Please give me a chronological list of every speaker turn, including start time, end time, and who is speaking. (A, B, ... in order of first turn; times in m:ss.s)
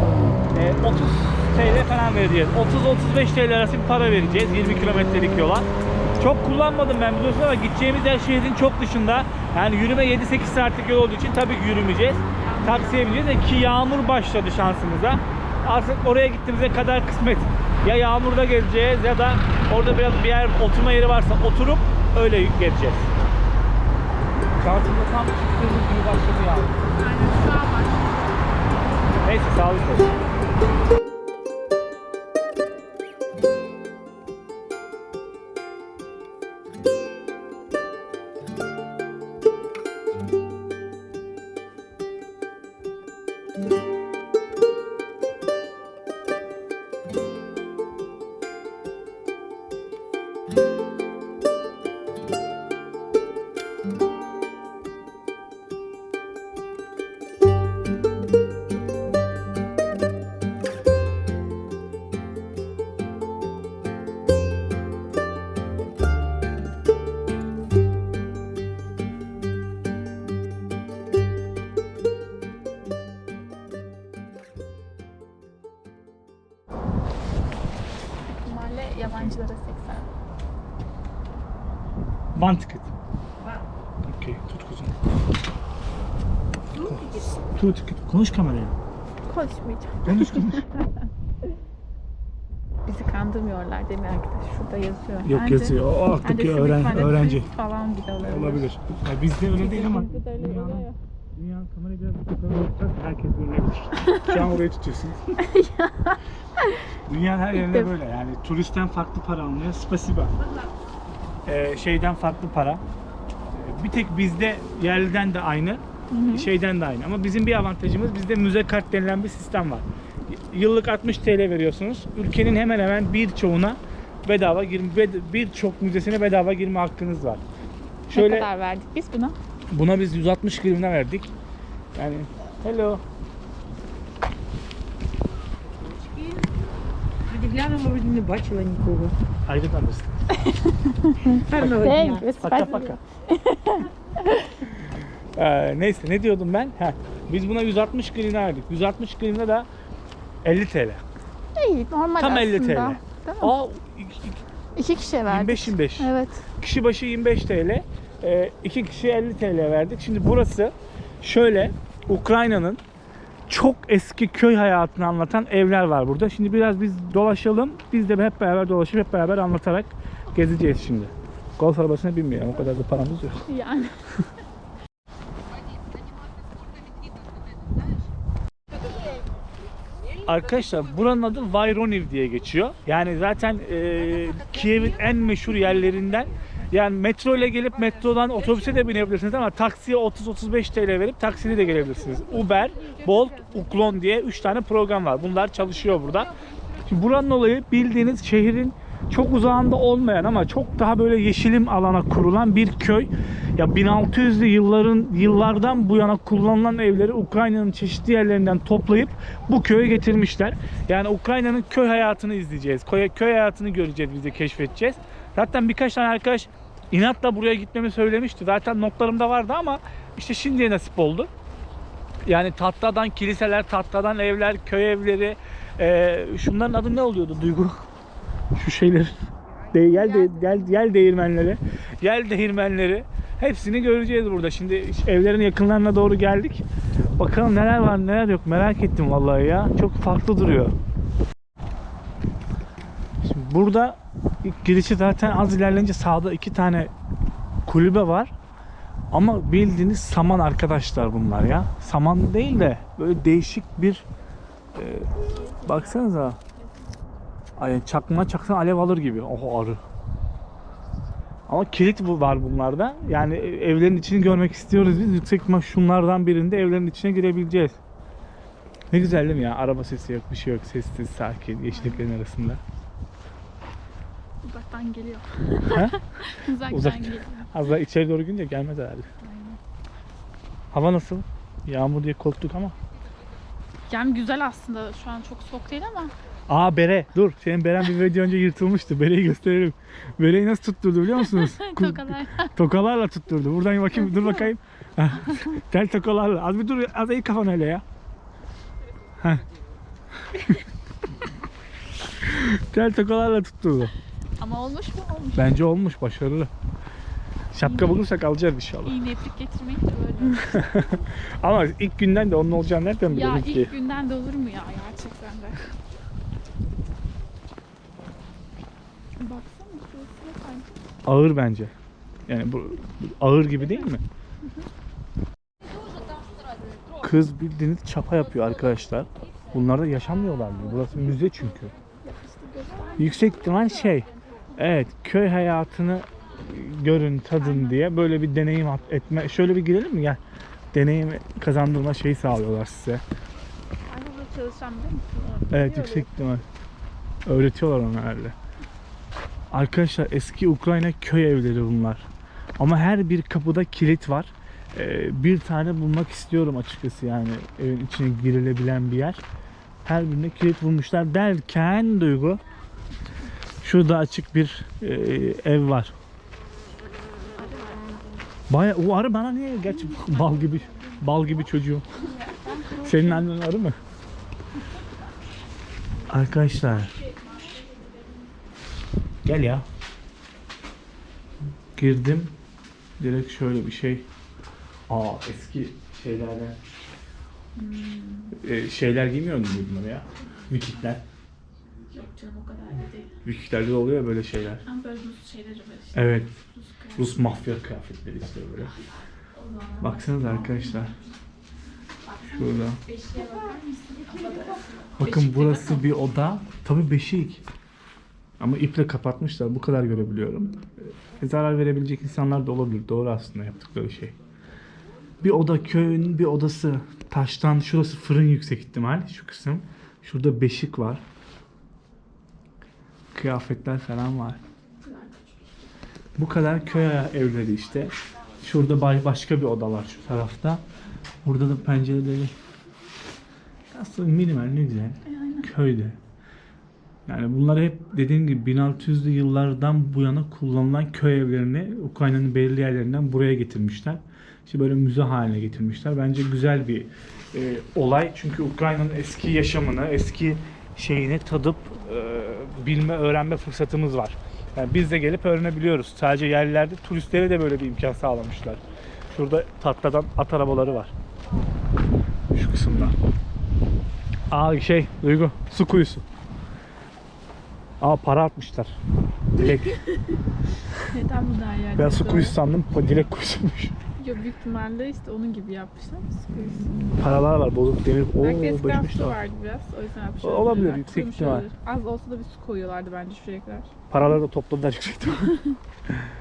0:00.5-0:05.7 A
0:06.2-0:23.1 A
0:12.4-0:13.4 B
0:24.6-0:26.8 A
0:27.0-0:28.5 B
0:29.2-0:30.1 A
1:18.3-1:20.1 B
1:22.4-1:22.9 A
1:24.1-1:24.9 A
1:26.8-1:28.8 A
1:29.3-1:31.0 B
1:30.0-1:30.7 A
1:32.9-1:38.6 B
1:35.2-1:37.5 A
1:38.2-1:45.2 A
1:39.6-1:41.0 B
1:44.1-1:44.4 B
1:45.4-1:46.8 B
1:47.1-1:50.3 A
1:47.6-1:47.9 B
1:51.5-1:52.8 A
1:53.5-2:07.4 A
1:56.1-1:56.5 B
2:08.1-2:08.5 A
2:08.1-2:09.4 B
2:09.7-2:11.3 A
2:12.0-2:13.0 A
2:16.0-2:16.4 C
2:17.3-2:19.2 C
2:19.5-2:20.2 A
2:20.4-2:24.5 B
2:21.3-2:22.3 C
2:22.4-2:23.0 A
2:25.4-2:29.7 A
2:30.4-2:31.0 A
2:31.6-2:33.5 B
2:32.2-2:34.4 A
2:34.8-2:36.5 B
2:35.3-2:42.8 A
2:43.5-2:53.5 A
2:53.5-2:54.0 B
3:00.2-3:16.3 A
3:12.3-3:13.4 B
3:16.8-3:41.3 A
3:42.3-3:47.9 A
3:48.6-3:56.6 A
3:50.0-3:50.6 B
3:57.2-4:00.8 A
4:03.2-4:06.9 A
4:07.7-4:08.3 A
4:09.1-4:14.0 A
4:14.8-4:16.4 A
4:15.2-4:16.7 B
4:17.6-4:19.8 A
4:21.5-4:27.8 A
4:28.9-4:32.6 A
4:31.7-4:32.1 B
4:34.4-4:37.5 B
4:35.7-4:36.0 A
4:36.7-4:39.1 A
4:39.2-4:39.6 B
4:40.7-4:42.8 A
4:43.9-4:46.1 B
4:46.5-4:57.8 A
4:51.2-4:52.5 B
4:54.0-4:54.5 B
5:02.2-5:03.9 A
5:04.4-5:05.6 B
5:05.4-5:06.5 A
5:07.5-5:09.0 A
5:07.6-5:08.1 B
5:08.8-5:10.7 B
5:10.4-5:13.7 A
5:13.1-5:15.7 B
5:19.2-5:20.7 B
5:21.0-5:21.7 A
5:22.3-5:24.0 A
5:27.0-5:31.7 A
5:32.0-5:33.7 B
5:33.0-5:40.2 A
5:37.4-5:37.8 B
5:40.7-5:43.0 A
5:43.9-5:46.1 B
5:45.5-5:46.4 A
5:47.3-5:48.4 A
5:49.5-5:52.0 A
5:52.6-5:59.2 A
5:59.8-6:02.4 A
6:03.6-6:05.9 A
6:07.3-6:08.2 B
6:08.5-6:11.9 A
6:09.8-6:10.8 B
6:12.0-6:13.3 B
6:12.8-6:13.8 A
6:16.1-6:16.9 A
6:16.9-6:18.3 B
6:19.2-6:19.6 A
6:21.8-6:22.4 A
6:23.0-6:24.1 A
6:24.9-6:26.6 A
6:27.6-6:28.4 B
6:28.4-6:31.0 A
6:31.9-6:33.2 B
6:33.2-6:34.6 A
6:34.6-6:37.2 B
6:35.9-6:36.3 A
6:37.0-6:38.7 A
6:38.7-6:41.0 B
6:39.8-6:40.9 A
6:42.1-6:45.9 B
6:42.3-6:42.8 A
6:45.0-6:47.4 A
6:48.4-6:54.2 A
6:55.2-7:01.0 A
7:03.1-7:04.4 A
7:04.8-7:05.3 B
7:06.2-7:10.6 A
7:11.2-7:12.3 A
7:13.7-7:16.0 A
7:15.0-7:15.5 B
7:17.1-7:40.9 A
7:42.3-7:43.0 A
7:44.3-7:46.0 A
7:47.8-7:48.8 A
7:49.3-7:49.8 A
7:49.4-7:50.1 B
7:50.9-7:52.4 B
7:51.8-7:53.7 A
7:54.0-7:56.7 B
7:56.3-7:59.2 A
7:58.2-8:03.7 B
8:00.2-8:01.5 A
8:03.9-8:05.4 A